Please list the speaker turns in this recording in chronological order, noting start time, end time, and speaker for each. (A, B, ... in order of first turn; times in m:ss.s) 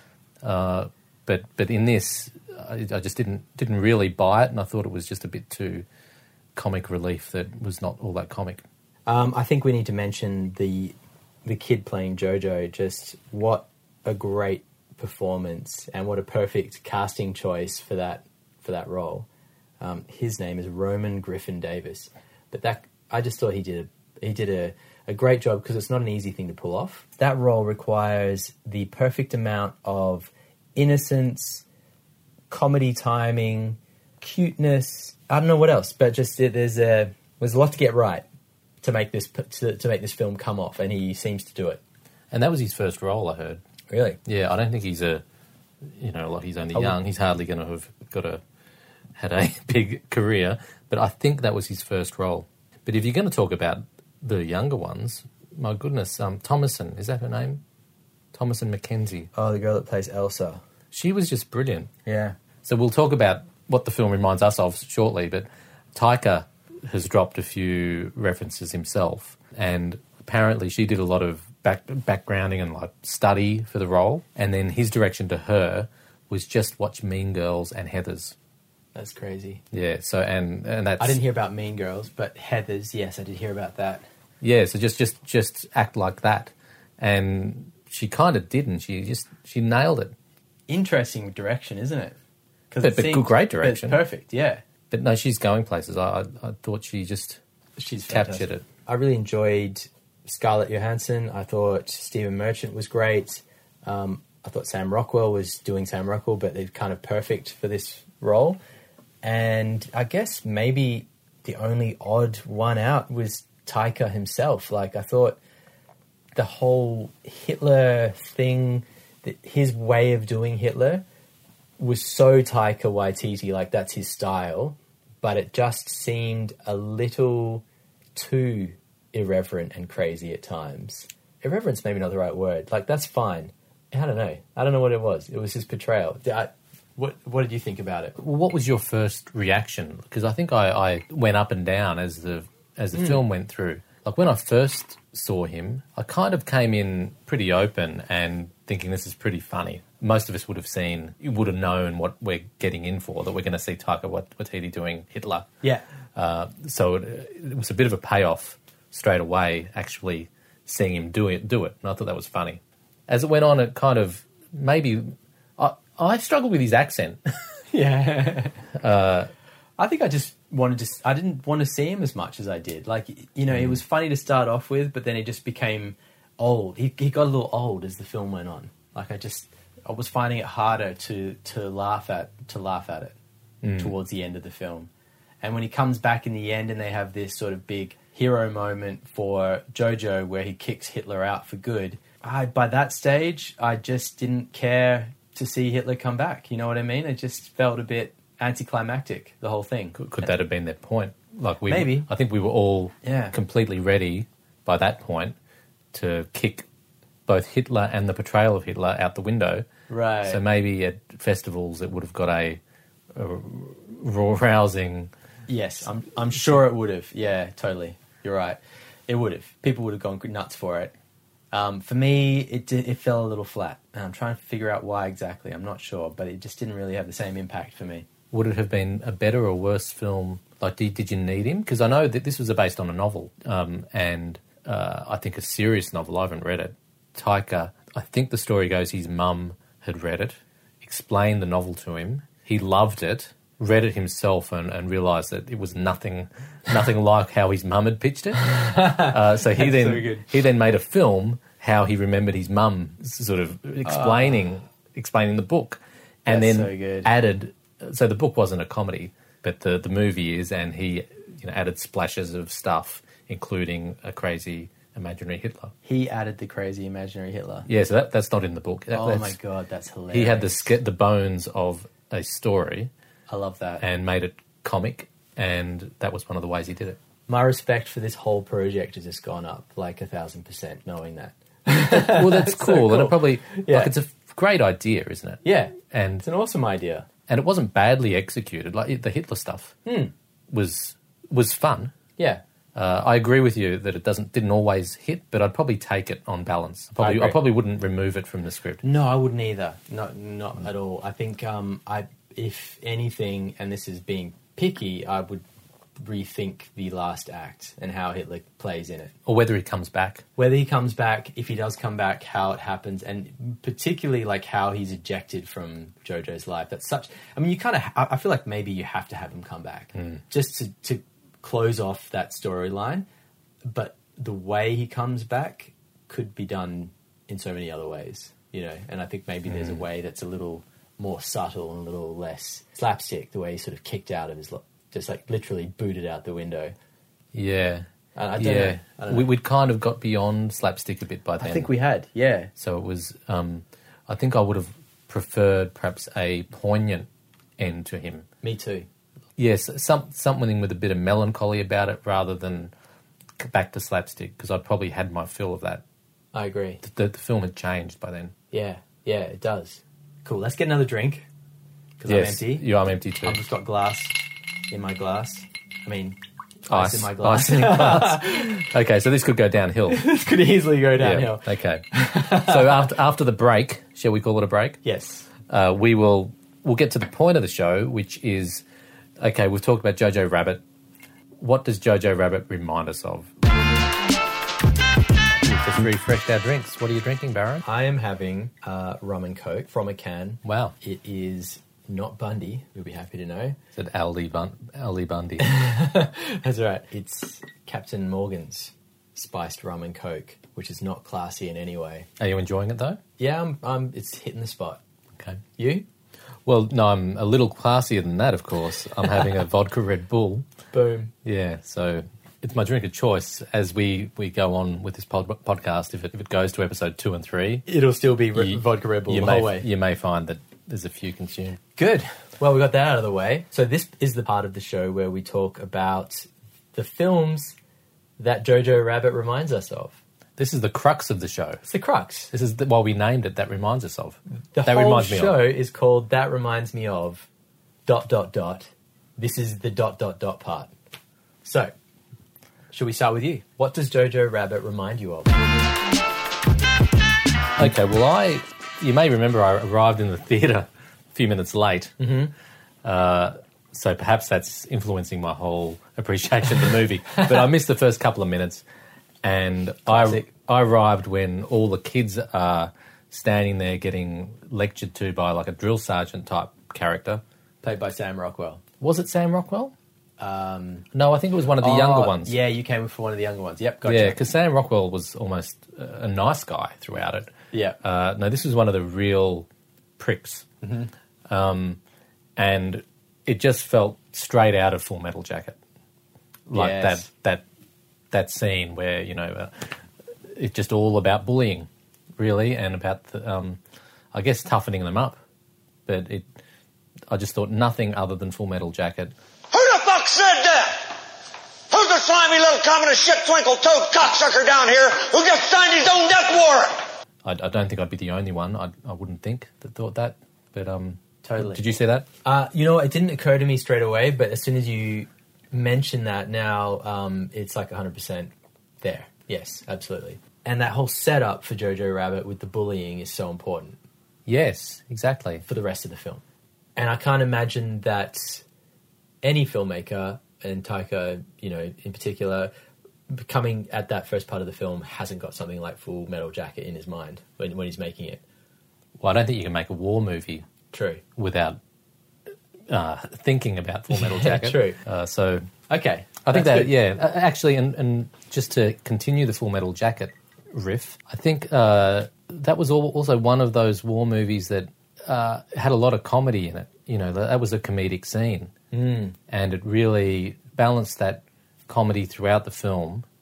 0:00.4-0:05.8 A
0:06.6-0:08.6 A
0:09.0-0:19.3 B
0:19.8-0:31.6 B
0:32.5-0:38.2 B
0:38.8-0:41.8 B
0:42.3-0:43.6 A
0:43.9-0:44.2 B
0:44.2-0:45.2 A
0:45.9-0:48.4 A
0:49.2-0:57.6 A
0:58.3-0:59.3 A
0:59.3-1:00.6 B
1:00.9-1:01.9 A
1:02.0-1:02.4 B
1:02.6-1:18.3 A
1:18.9-1:19.6 B
1:19.7-1:21.2 A
1:21.0-1:24.0 B
1:24.4-1:30.1 A
1:30.7-1:32.2 B
1:32.7-1:34.6 B
1:32.8-1:34.0 A
1:34.9-1:37.4 A
1:37.8-1:48.6 B
1:38.1-1:38.6 A
1:49.2-1:55.4 B
1:56.3-2:01.0 B
2:01.8-2:18.2 B
2:18.2-2:35.5 A
2:22.9-2:23.2 B
2:36.1-2:47.2 A
2:47.7-2:48.6 B
2:48.7-2:49.3 A
2:49.8-3:03.2 B
3:03.6-3:03.9 A
3:03.8-3:04.9 B
3:05.4-3:20.3 B
3:20.0-3:25.4 A
3:21.6-3:22.1 B
3:23.0-3:23.3 B
3:25.9-3:26.6 A
3:27.3-3:29.7 A
3:29.9-3:30.4 B
3:30.2-3:32.6 A
3:33.1-3:35.1 A
3:35.5-3:40.9 B
3:41.5-3:48.1 B
3:48.3-4:25.7 A
4:08.4-4:10.3 B
4:13.8-4:14.4 B
4:16.3-4:17.1 B
4:25.8-4:27.7 B
4:27.6-4:29.4 A
4:28.9-4:30.8 B
4:30.1-4:32.9 A
4:33.3-4:33.8 B
4:33.8-4:37.0 A
4:37.3-4:43.9 B
4:41.7-4:46.3 A
4:45.4-4:47.1 B
4:47.3-4:49.8 A
4:49.8-4:50.1 B
4:50.5-4:51.9 A
4:52.2-4:52.4 B
4:52.7-4:58.8 A
4:57.0-4:57.4 B
4:58.8-5:05.4 B
5:06.0-5:09.1 B
5:09.2-5:10.2 A
5:10.4-5:23.1 B
5:19.9-5:20.2 A
5:23.6-5:36.7 B
5:29.5-5:29.8 A
5:37.3-5:37.9 A
5:38.1-5:39.3 B
5:38.4-5:41.7 A
5:41.4-5:42.5 B
5:42.6-5:47.1 A
5:47.6-5:48.2 A
5:48.4-5:48.9 B
5:49.4-5:52.7 A
5:53.4-5:55.8 A
5:56.3-5:56.8 B
5:56.8-5:58.3 A
5:58.5-6:01.3 B
6:02.0-6:02.7 B
6:02.0-6:03.4 A
6:03.2-6:04.2 B
6:04.7-6:08.6 B
6:06.7-6:10.1 A
6:09.9-6:12.9 B
6:11.0-6:14.8 A
6:14.8-6:15.3 B
6:15.5-6:18.6 A
6:19.2-6:20.6 A
6:21.4-6:23.3 A
6:25.4-6:27.6 A
6:27.6-6:33.6 B
6:30.4-6:30.7 A
6:33.8-6:35.6 A
6:35.4-6:42.1 B
6:42.2-6:43.0 A
6:43.2-6:44.8 B
6:45.6-6:45.8 B
6:46.4-6:50.4 A
6:50.7-6:51.1 B
6:51.2-6:57.7 A
6:57.7-6:59.7 B
6:58.3-7:01.6 A
7:01.8-7:07.5 B
7:08.2-7:10.0 B
7:10.4-7:11.6 A
7:11.6-7:12.3 B
7:12.3-7:15.5 A
7:14.5-7:17.3 B
7:17.8-7:20.7 B
7:21.4-7:21.7 B
7:22.7-7:25.3 B
7:27.6-7:32.0 A
7:32.0-7:32.3 B
7:32.8-7:38.6 A
7:39.2-7:47.2 A
7:39.9-7:40.3 B
7:47.6-7:48.6 B
7:48.8-7:49.7 A
7:50.2-7:50.8 B
7:50.9-7:52.4 A
7:51.6-7:54.2 B
7:53.8-7:59.5 A
7:57.5-7:57.8 B
8:00.0-8:00.4 A
8:00.6-8:00.9 B
8:01.3-8:01.8 A
8:02.4-8:05.6 A
8:06.5-8:07.4 A
8:06.5-8:07.0 B
8:08.1-8:09.7 A
8:10.3-8:13.6 A
8:14.1-8:15.2 A
8:15.9-8:16.3 A
8:17.1-8:19.1 A
8:19.5-8:20.8 C
8:21.7-8:26.8 C
8:27.2-8:32.0 A
8:31.2-8:31.6 B
8:32.2-8:43.8 B
8:44.2-8:45.4 A
8:45.4-8:46.2 B
8:46.8-8:48.4 B
8:49.2-8:52.5 B
8:53.1-8:58.2 B
8:59.0-9:00.4 A
9:00.7-9:01.0 B
9:01.2-9:01.6 A
9:02.7-9:05.5 A
9:03.9-9:04.8 B
9:05.7-9:06.7 B
9:06.2-9:18.5 A
9:18.7-9:19.1 B
9:19.3-9:23.0 A